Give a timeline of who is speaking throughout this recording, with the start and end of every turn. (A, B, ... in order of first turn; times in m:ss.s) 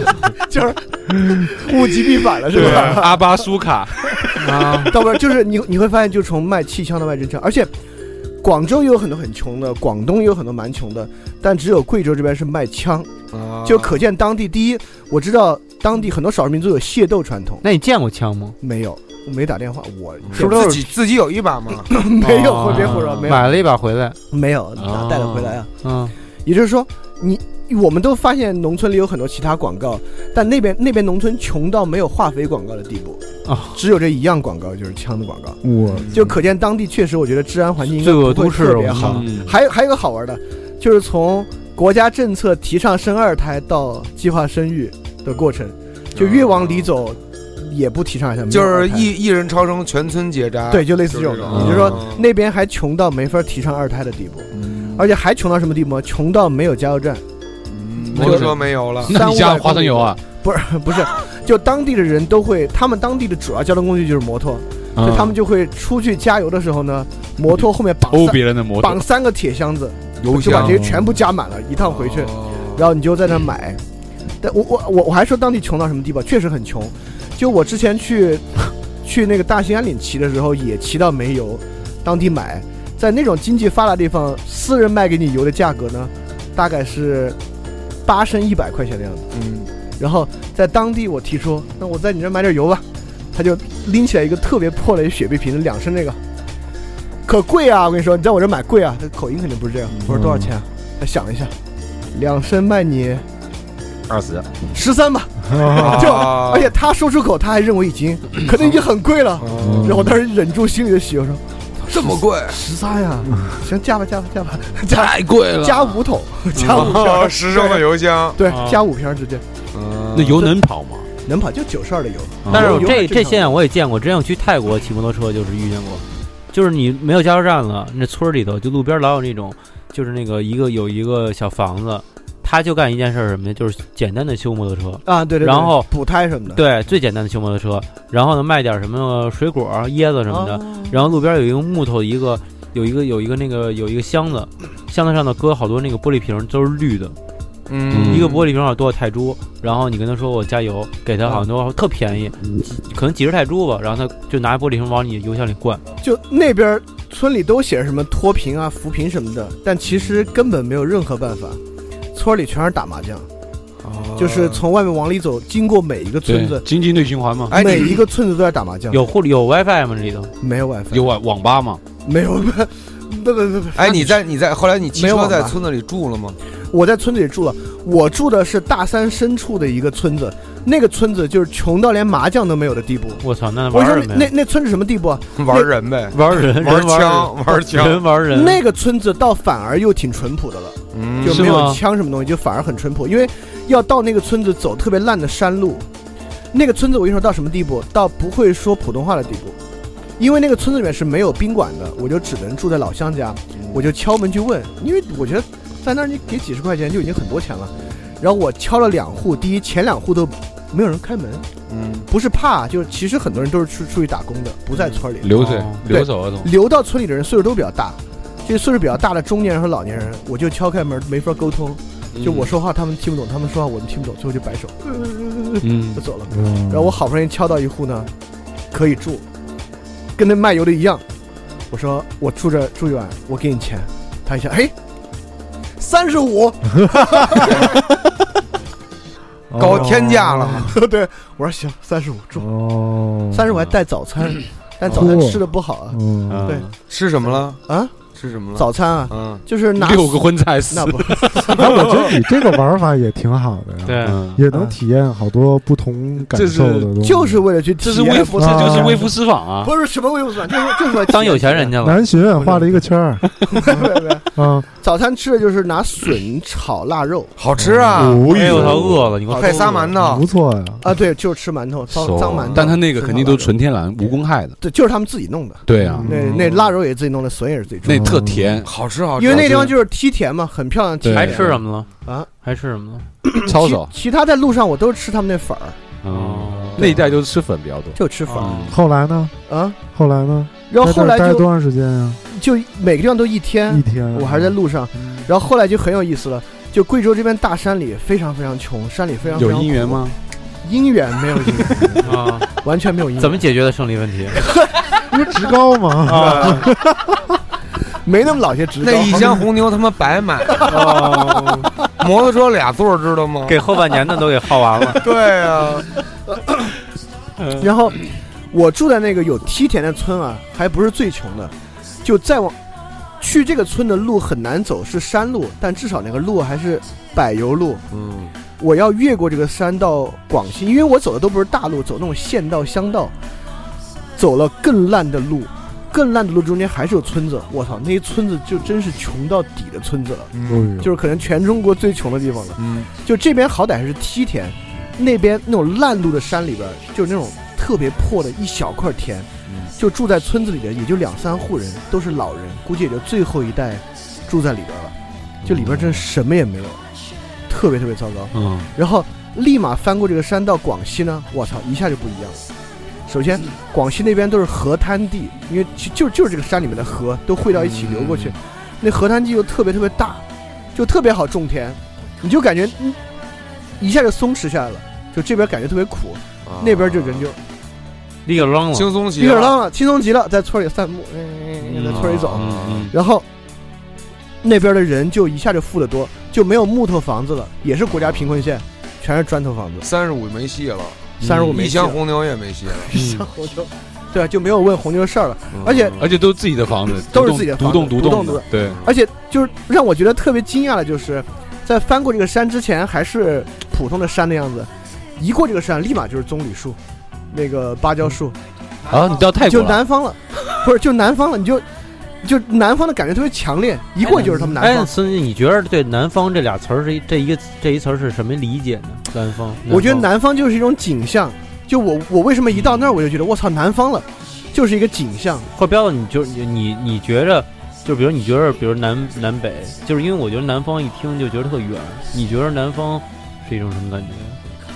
0:00.3-0:03.2 A
0:02.5-0:04.4 B
0:02.5-0:03.1 C
0:04.4-0:04.9 D
0:04.6-0:07.7 A
0:08.4-0:13.1 A
0:13.3-0:14.0 C
0:13.6-0:17.6 A
0:17.6-0:18.6 D
0:18.6-0:20.8 A
0:20.2-0:21.9 C
0:20.3-0:20.9 D
0:21.9-0:23.5 A
0:22.2-0:24.2 D
0:22.7-0:23.3 B
0:24.3-0:25.7 A
0:24.8-0:25.6 B
0:25.8-0:26.1 D
0:26.4-0:33.2 A
0:33.4-0:33.8 D
0:33.7-0:35.6 A
0:35.6-0:36.2 E
0:35.9-0:36.4 C
0:36.1-0:49.1 A
0:38.0-0:39.3 D
0:38.9-0:39.5 B
0:46.1-0:46.9 C
0:48.5-0:52.2 C
0:50.7-0:57.2 A
0:51.5-0:52.0 B
0:54.5-0:55.1 C
0:57.7-0:59.1 C
0:58.1-1:00.2 B
0:58.1-1:13.8 A
1:05.0-1:05.4 B
1:08.1-1:09.0 B
1:10.2-1:10.8 C
1:10.6-1:11.1 E
1:11.8-1:12.8 C
1:14.4-1:27.4 A
1:28.0-1:29.3 A
1:29.3-1:29.7 C
1:30.0-1:36.2 A
1:37.2-1:41.5 A
1:39.9-1:40.2 C
1:42.1-1:43.2 A
1:44.1-1:44.5 B
1:44.7-1:59.4 A
1:45.5-1:46.1 E
1:45.6-1:46.7 C
1:48.5-1:48.8 C
1:49.4-1:50.1 C
1:49.6-1:50.0 E
1:51.9-1:52.6 C
1:54.9-1:56.0 B
1:56.6-1:56.9 B
1:56.6-1:58.4 C
1:58.5-1:58.8 D
1:59.7-2:00.5 C
2:00.1-2:01.1 B
2:01.2-2:03.6 A
2:02.4-2:03.0 B
2:02.5-2:15.9 D
2:15.0-2:16.6 A
2:16.5-2:27.1 D
2:20.3-2:21.0 A
2:27.7-2:28.5 C
2:27.9-2:28.3 B
2:28.1-2:35.8 D
2:36.0-2:41.6 A
2:42.1-2:43.3 A
2:43.8-2:44.6 C
2:44.2-2:46.6 A
2:46.2-2:47.6 B
2:47.5-2:48.0 C
2:47.5-2:49.0 A
2:48.9-2:50.3 D
2:50.4-2:51.1 A
2:50.9-2:51.8 B
2:52.0-2:54.2 A
2:53.7-2:56.4 C
2:54.9-2:55.6 A
2:56.7-3:05.7 A
3:03.2-3:04.3 D
3:05.4-3:08.0 C
3:06.1-3:08.6 D
3:08.3-3:15.8 A
3:10.9-3:11.6 C
3:11.2-3:11.8 D
3:16.5-3:19.6 A
3:20.2-3:31.4 A
3:23.5-3:23.8 C
3:31.7-3:32.1 C
3:32.1-3:48.1 A
3:35.2-3:36.5 B
3:35.3-3:35.8 D
3:42.1-3:42.5 B
3:45.6-3:46.0 B
3:46.3-3:47.0 E
3:48.7-3:49.2 A
3:50.2-3:51.0 A
3:51.7-3:54.7 A
3:55.8-3:57.8 A
3:59.5-4:00.7 E
3:59.6-4:00.8 C
3:59.6-4:00.0 A
4:00.6-4:02.5 A
4:02.4-4:03.4 E
4:03.3-4:06.6 A
4:04.9-4:05.1 C
4:04.9-4:06.5 E
4:06.3-4:06.7 B
4:06.9-4:07.6 C
4:07.6-4:07.9 A
4:08.1-4:09.4 C
4:08.5-4:11.6 A
4:09.7-4:11.6 B
4:11.5-4:17.4 E
4:13.8-4:14.2 D
4:14.0-4:14.4 B
4:16.2-4:16.9 B
4:17.0-4:21.8 A
4:17.8-4:19.7 B
4:18.4-4:19.0 E
4:21.0-4:22.0 D
4:21.8-4:23.5 E
4:22.4-4:22.7 A
4:23.6-4:27.3 A
4:24.3-4:24.7 E
4:27.4-4:30.3 C
4:27.7-4:29.1 B
4:27.9-4:28.8 E
4:28.3-4:29.9 D
4:29.3-4:29.9 A
4:30.0-4:30.8 E
4:30.8-4:33.5 A
4:31.9-4:34.6 B
4:34.6-4:38.2 A
4:35.6-4:36.6 B
4:36.0-4:36.4 C
4:37.8-4:38.7 B
4:37.9-4:38.6 E
4:38.6-4:39.7 C
4:39.2-4:42.3 A
4:39.3-4:39.7 B
4:41.0-4:41.6 B
4:41.1-4:41.9 D
4:42.4-4:43.1 D
4:43.3-4:45.8 A
4:43.4-4:43.9 B
4:46.0-4:48.8 B
4:46.1-4:46.9 D
4:46.8-4:47.0 A
4:47.9-4:48.7 A
4:48.3-4:48.7 D
4:48.7-4:49.3 E
4:49.5-4:49.8 A
4:49.9-4:52.2 E
4:50.7-4:51.4 A
4:52.3-5:00.0 A
4:53.7-4:54.6 E
4:59.4-5:00.2 B
5:00.6-5:03.4 A
5:02.0-5:02.5 D
5:03.2-5:04.4 D
5:05.1-5:07.2 E
5:06.0-5:06.7 D
5:06.2-5:06.6 C
5:08.0-5:09.4 A
5:08.8-5:10.7 C
5:10.6-5:11.5 A
5:10.7-5:11.7 D
5:12.0-5:13.6 C
5:13.5-5:15.0 D
5:14.9-5:15.9 C
5:16.3-5:16.6 A
5:17.6-5:18.0 A
5:18.5-5:21.5 A
5:22.0-5:22.6 A
5:23.2-5:27.8 A
5:27.9-5:28.3 C
5:28.6-5:33.1 A
5:34.2-5:54.9 A
5:40.3-5:40.8 C
5:40.4-5:40.9 E
5:42.6-5:42.9 C
5:55.4-5:56.0 B
5:55.4-5:56.8 A
5:57.5-6:02.4 A
5:58.3-5:58.7 B
6:03.1-6:10.2 A
6:07.8-6:08.3 C
6:10.7-6:13.0 A
6:13.8-6:17.4 A
6:16.4-6:17.3 C
6:18.2-6:19.0 D
6:18.7-6:19.6 C
6:19.2-6:23.2 A
6:21.8-6:22.9 C
6:21.9-6:22.9 B
6:24.4-6:29.8 A
6:29.8-6:32.9 C
6:31.2-6:32.0 A
6:31.2-6:31.5 B
6:32.8-6:36.0 A
6:32.9-6:33.3 B
6:35.5-6:36.1 C
6:36.0-6:38.8 B
6:37.1-6:46.8 A
6:38.5-6:38.9 C
6:47.3-6:48.4 A
6:48.9-6:49.8 B
6:49.3-6:51.6 A
6:52.2-6:54.9 A
6:54.0-7:00.1 D
6:59.7-7:05.5 A
7:05.5-7:14.4 D